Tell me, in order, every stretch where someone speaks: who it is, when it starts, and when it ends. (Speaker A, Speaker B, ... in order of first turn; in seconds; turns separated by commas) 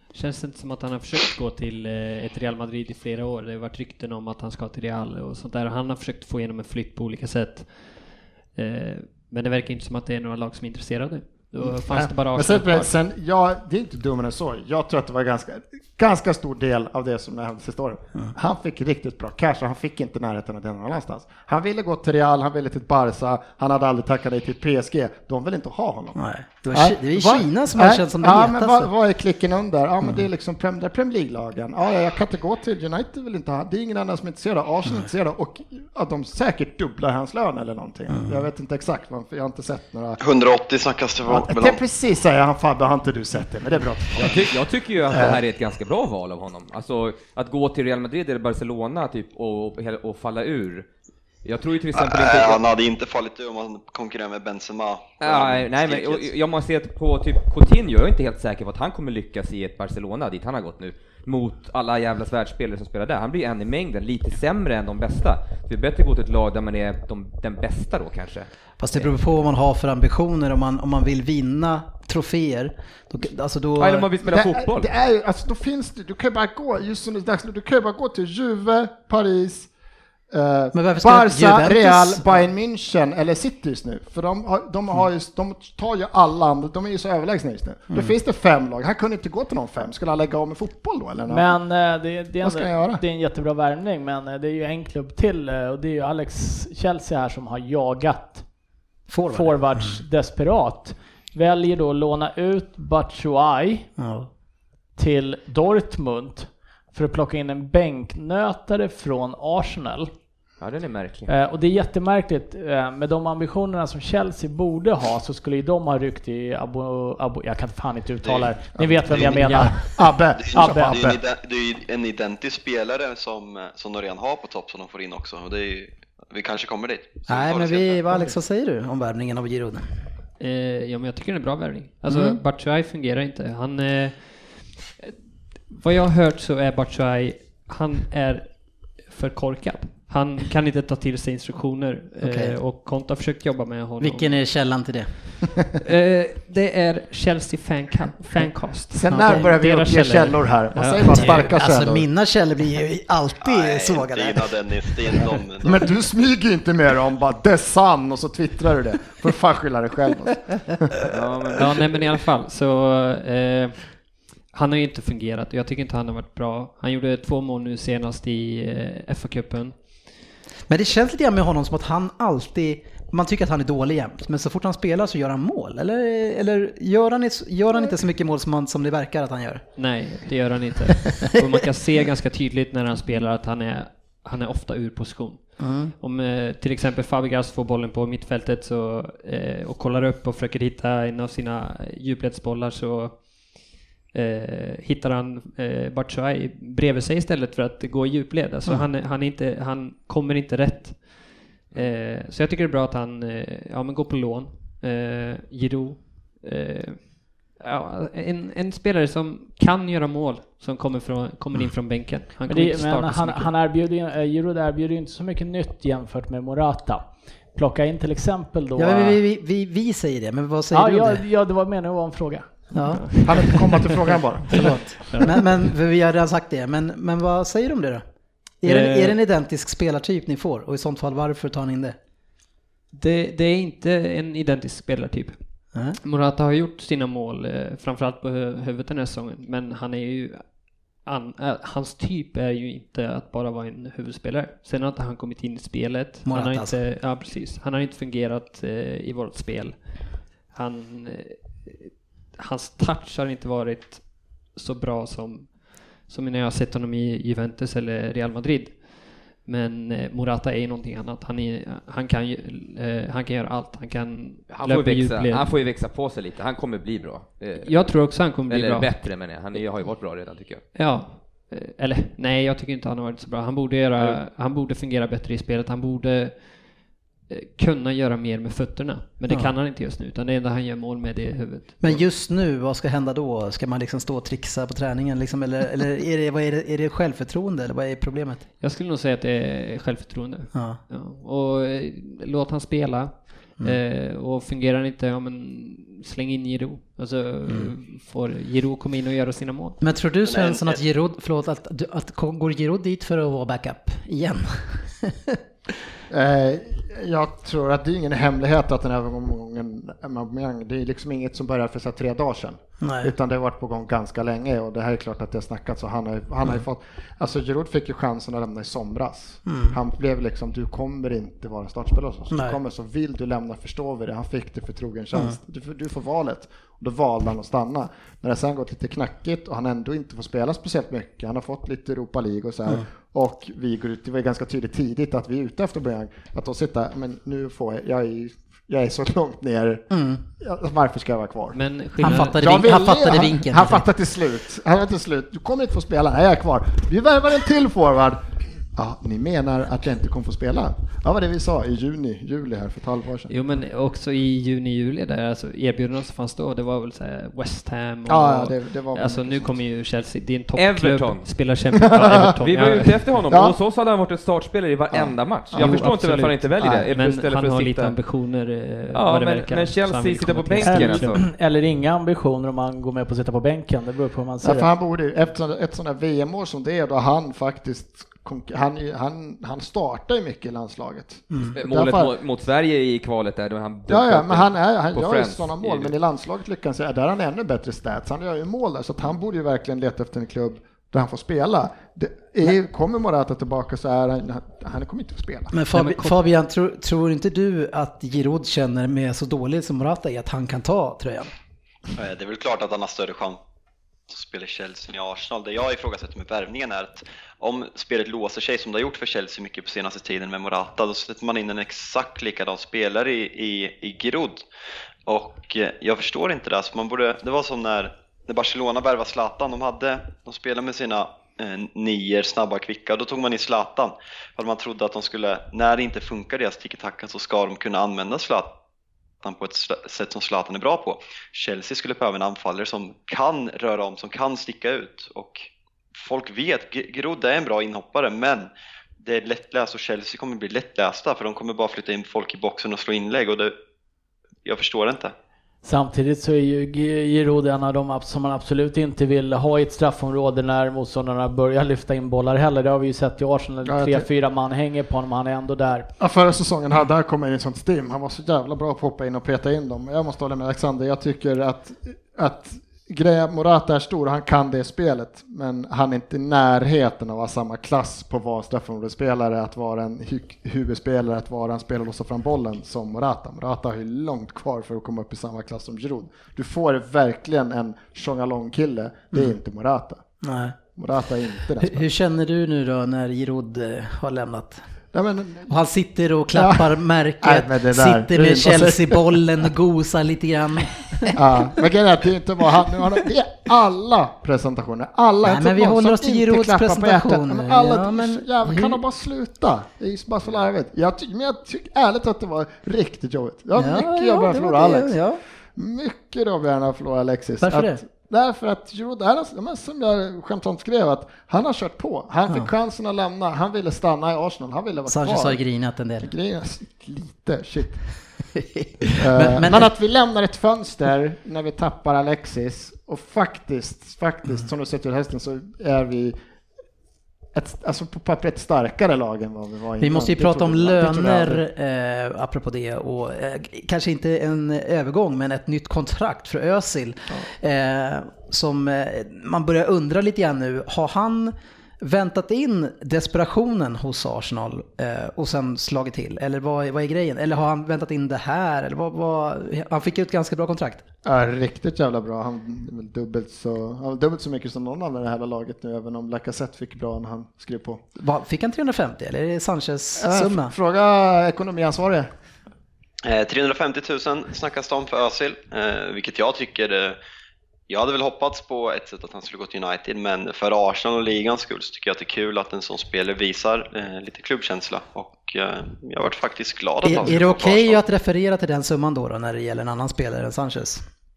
Speaker A: 0.1-12.9, Speaker B: 11.6-26.2, Speaker C: 26.1-28.9, Speaker B: 26.7-40.2, Speaker C: 30.0-30.3, Speaker C: 38.1-38.5, Speaker D: 40.2-41.8, Speaker B: 41.3-45.4, Speaker E: 44.1-50.9, Speaker E: 51.4-52.6, Speaker D: 51.9-56.3, Speaker E: 55.2-69.1, Speaker C: 68.8-74.1, Speaker E: 73.8-74.9, Speaker B: 74.2-79.7, Speaker B: 80.3-91.5, Speaker C: 80.7-82.4, Speaker C: 87.9-88.2, Speaker F: 91.3-98.5, Speaker B: 92.4-93.0, Speaker C: 99.1-100.0, Speaker F: 99.3-103.9, Speaker C: 104.0-104.3, Speaker F: 105.0-110.1, Speaker E: 110.6-111.3, Speaker F: 111.3-121.0, Speaker B: 118.8-121.2, Speaker D: 119.1-119.8, Speaker D: 120.3-128.0, Speaker C: 127.3-129.9, Speaker A: 130.4-135.1, Speaker C: 132.0-132.4, Speaker A: 135.7-144.4, Speaker C: 142.2-142.6, Speaker C: 144.0-145.5, Speaker A: 145.8-151.6, Speaker B: 148.9-152.1, Speaker C: 149.1-149.6, Speaker C: 151.1-155.3, Speaker D: 153.4-155.8, Speaker B: 155.6-161.6, Speaker E: 161.1-161.7, Speaker A: 161.6-170.2, Speaker C: 170.7-179.8, Speaker A: 179.8-213.5, Speaker C: 185.6-185.9, Speaker F: 212.5-219.2, Speaker C: 218.8-221.2, Speaker F: 220.7-222.8, Speaker C: 222.7-223.1, Speaker A: 222.9-223.4, Speaker B: 223.2-225.0, Speaker C: 224.5-228.0, Speaker A: 224.6-225.3, Speaker C: 228.6-232.0, Speaker A: 228.6-229.2, Speaker A: 232.9-235.4, Speaker C: 235.7-236.0, Speaker A: 236.0-265.7, Speaker C: 246.2-246.8, Speaker E: 264.5-270.6, Speaker A: 267.6-269.6, Speaker A: 270.7-282.0, Speaker C: 279.3-279.5, Speaker C: 281.8-288.4, Speaker A: 288.6-299.8, Speaker C: 290.5-290.8, Speaker C: 297.4-297.7, Speaker C: 299.8-305.4, Speaker D: 300.2-300.8, Speaker B: 306.1-353.3, Speaker C: 312.8-313.1, Speaker C: 319.4-319.8, Speaker C: 322.3-322.6, Speaker C: 339.9-340.2, Speaker A: 341.5-342.6, Speaker C: 342.0-343.9, Speaker A: 353.3-363.2, Speaker B: 358.1-359.6, Speaker E: 360.5-361.5, Speaker E: 362.4-368.1, Speaker B: 363.3-363.6, Speaker B: 364.9-365.9, Speaker A: 365.5-371.2, Speaker B: 366.6-366.9, Speaker E: 368.9-371.2, Speaker F: 370.6-374.7, Speaker B: 374.4-382.1, Speaker E: 381.5-385.9, Speaker B: 383.9-395.6, Speaker C: 395.5-401.3, Speaker A: 395.7-396.1, Speaker D: 401.9-403.4, Speaker D: 404.1-414.4, Speaker D: 415.1-428.5, Speaker D: 429.2-438.5, Speaker D: 439.0-443.5, Speaker D: 444.4-445.1, Speaker F: 445.6-455.9, Speaker B: 453.6-454.0, Speaker B: 456.0-480.0, Speaker C: 480.2-480.6, Speaker B: 480.7-481.9, Speaker C: 481.6-484.6, Speaker B: 484.9-485.5, Speaker C: 485.4-491.2, Speaker B: 486.4-489.2, Speaker B: 491.1-505.0, Speaker C: 495.2-498.8, Speaker C: 503.6-505.2, Speaker B: 505.5-515.4, Speaker C: 507.4-507.8, Speaker C: 514.9-516.1, Speaker B: 516.0-518.1, Speaker C: 518.5-519.7, Speaker B: 519.0-526.1, Speaker B: 527.3-531.4, Speaker C: 529.8-550.8, Speaker B: 551.0-557.8, Speaker C: 558.0-560.5, Speaker B: 560.0-562.1, Speaker D: 563.0-567.0, Speaker D: 567.7-577.8, Speaker C: 576.8-580.8